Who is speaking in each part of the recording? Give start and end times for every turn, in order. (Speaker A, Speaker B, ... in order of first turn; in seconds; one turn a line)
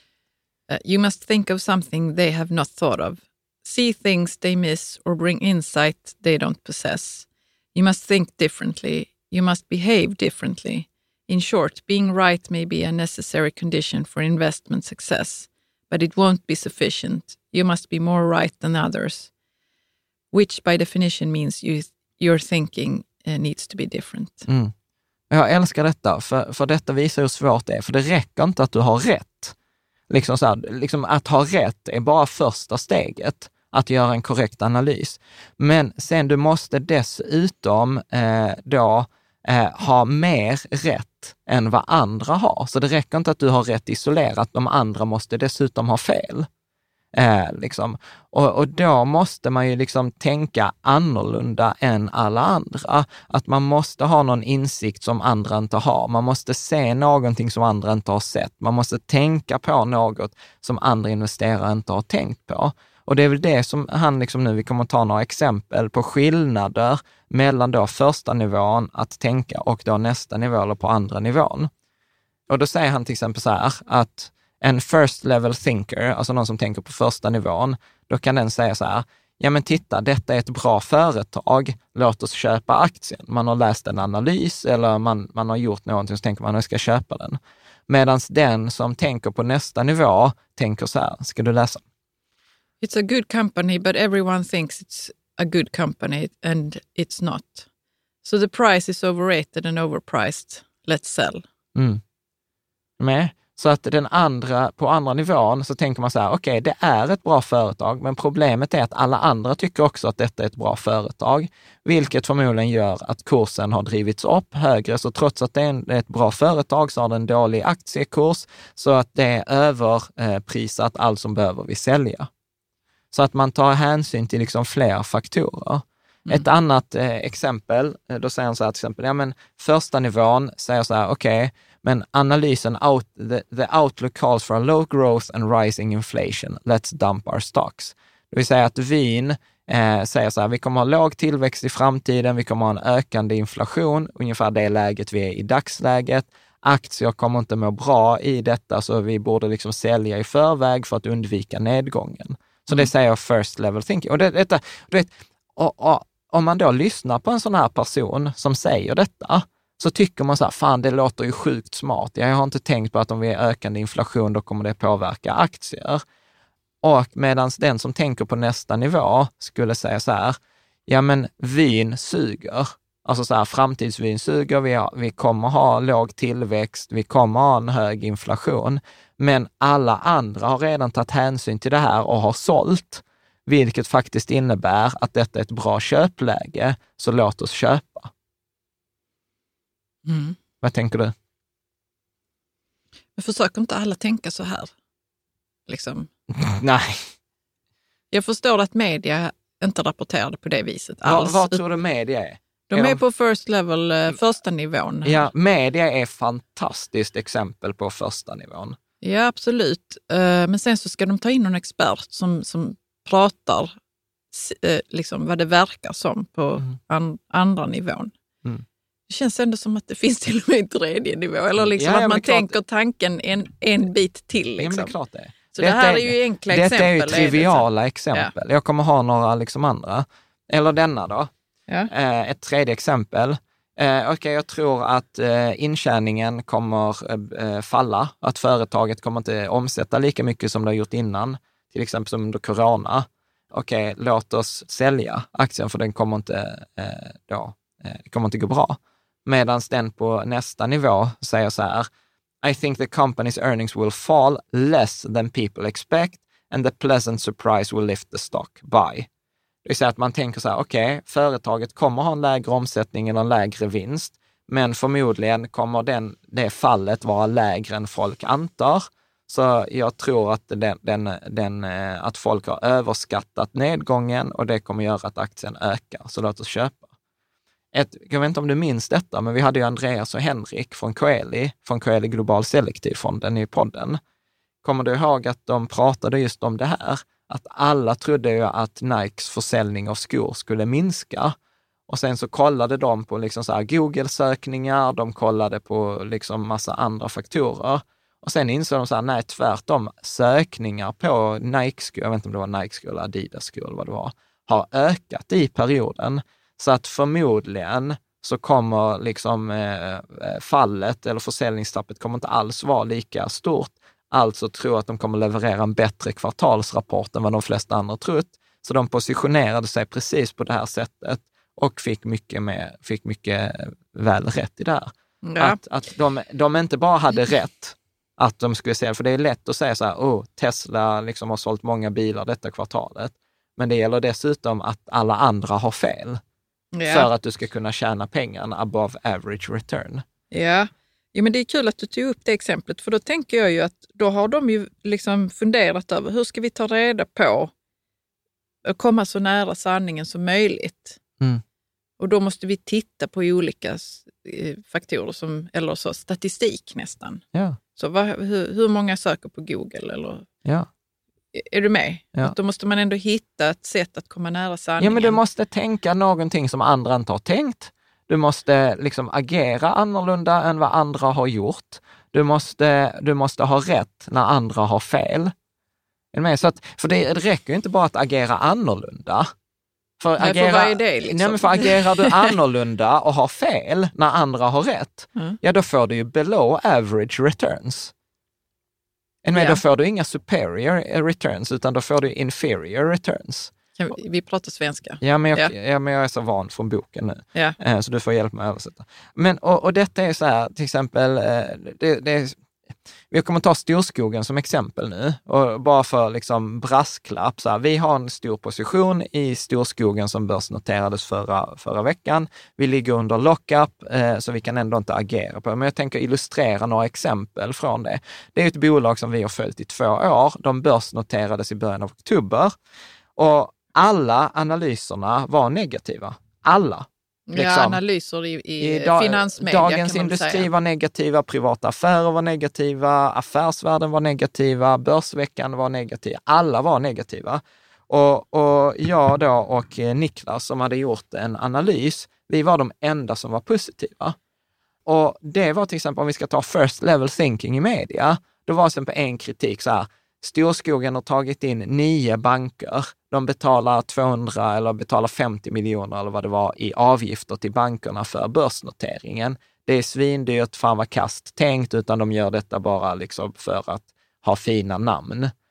Speaker A: 0.7-19.3
Speaker A: 20.3-24.5
Speaker B: 24.5-24.7
Speaker B: 25.3-29.6
Speaker B: 30.1-46.5
Speaker B: 47.1-71.7
Speaker B: 72.5-91.8
Speaker A: 92.8-97.7
Speaker A: 98.2-101.4
Speaker B: 101.8-102.0
Speaker B: 103.0-122.3
Speaker B: 123.1-166.0
Speaker B: 166.8-188.1
Speaker A: 190.1-190.4
Speaker B: 190.6-191.1
Speaker A: 193.2-194.7
Speaker A: 195.7-196.1
Speaker B: 196.3-197.0
Speaker A: 198.1-201.6
Speaker B: 201.1-203.0
Speaker A: 202.7-205.3
Speaker B: 205.1-208.8
Speaker A: 209.0-213.7
Speaker A: 214.3-218.1
Speaker A: 219.1-224.9
Speaker B: 221.6-222.6
Speaker B: 224.6-231.3
Speaker A: 225.6-228.3
Speaker B: 231.9-251.9
Speaker B: 252.4-259.1
Speaker B: 259.6-276.9
Speaker B: 277.7-284.0
Speaker B: 284.6-291.4
Speaker B: 291.9-336.2
Speaker A: 325.2-325.6
Speaker A: 336.7-337.1
Speaker B: 336.9-340.1
Speaker A: 340.3-347.5
Speaker A: 348.6-351.0
Speaker A: 352.0-357.2
Speaker A: 357.8-360.3
Speaker A: 361.3-365.2
Speaker B: 364.8-375.3
Speaker B: 376.1-379.3
Speaker B: 380.0-387.9
Speaker A: 380.2-382.3
Speaker B: 389.2-393.5
Speaker A: 389.3-389.6
Speaker A: 393.8-395.5
Speaker B: 395.0-402.4
Speaker B: 403.1-422.6
Speaker B: 423.2-427.8
Speaker A: 427.3-430.5
Speaker B: 428.6-444.2
Speaker B: 444.9-465.3